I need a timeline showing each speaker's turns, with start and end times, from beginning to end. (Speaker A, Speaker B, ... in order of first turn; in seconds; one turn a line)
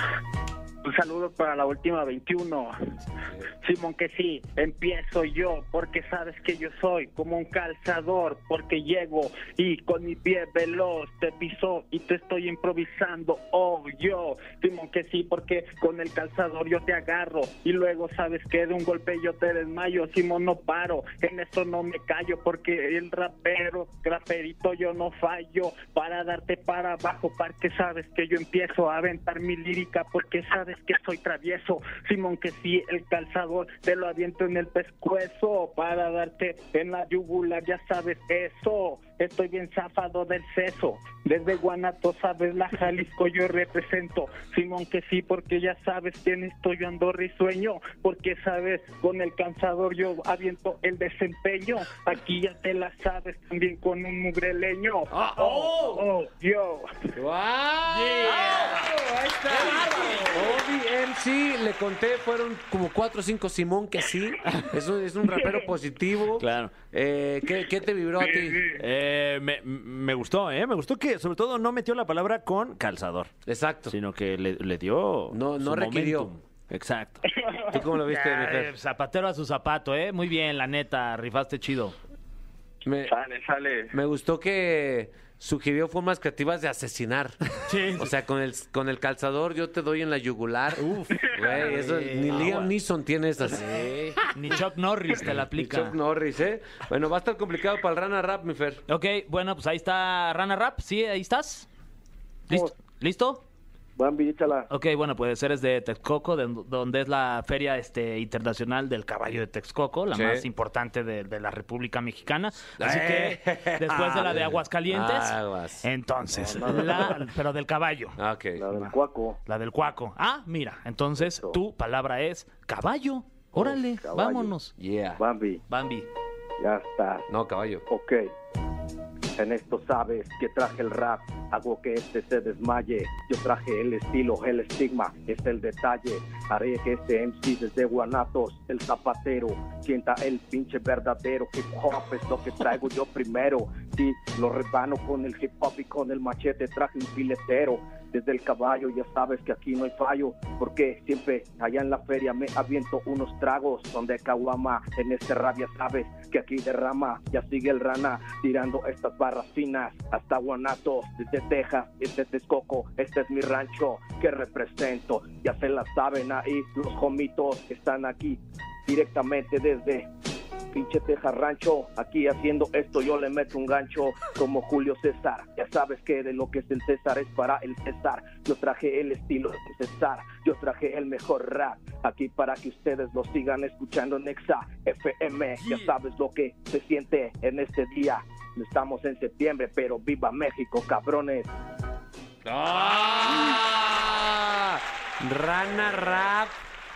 Speaker A: 0.8-2.8
Speaker A: 3.6-57.1
Speaker B: 55.1-56.0
Speaker C: 57.1-68.7
Speaker B: 57.9-58.9
Speaker D: 58.2-58.8
Speaker D: 59.7-60.0
Speaker B: 66.4-66.8
Speaker A: 68.2-68.8
Speaker B: 68.8-73.3
Speaker C: 73.5-74.0
Speaker B: 73.9-77.2
Speaker C: 75.3-76.3
Speaker A: 77.3-77.8
Speaker C: 77.7-78.7
Speaker D: 78.1-82.0
Speaker C: 82.8-83.1
Speaker A: 83.1-83.9
Speaker C: 83.9-94.2
Speaker D: 87.7-88.0
Speaker D: 90.8-92.7
Speaker A: 91.2-91.5
Speaker D: 94.3-96.0
Speaker C: 95.5-98.8
Speaker D: 98.9-101.7
Speaker E: 102.5-102.8
Speaker D: 102.5-103.4
Speaker E: 104.0-104.7
Speaker D: 104.7-118.2
Speaker C: 110.1-110.5
Speaker C: 112.8-115.8
Speaker E: 116.3-117.3
Speaker C: 118.2-118.7
Speaker E: 118.6-119.4
Speaker D: 119.5-124.7
Speaker E: 121.2-121.6
Speaker E: 123.5-124.6
Speaker C: 124.8-125.2
Speaker E: 125.2-125.6
Speaker D: 125.7-126.1
Speaker E: 126.6-127.2
Speaker C: 127.3-127.8
Speaker E: 127.9-128.3
Speaker E: 129.4-170.1
Speaker E: 170.7-191.5
Speaker B: 185.6-185.9
Speaker C: 192.4-196.6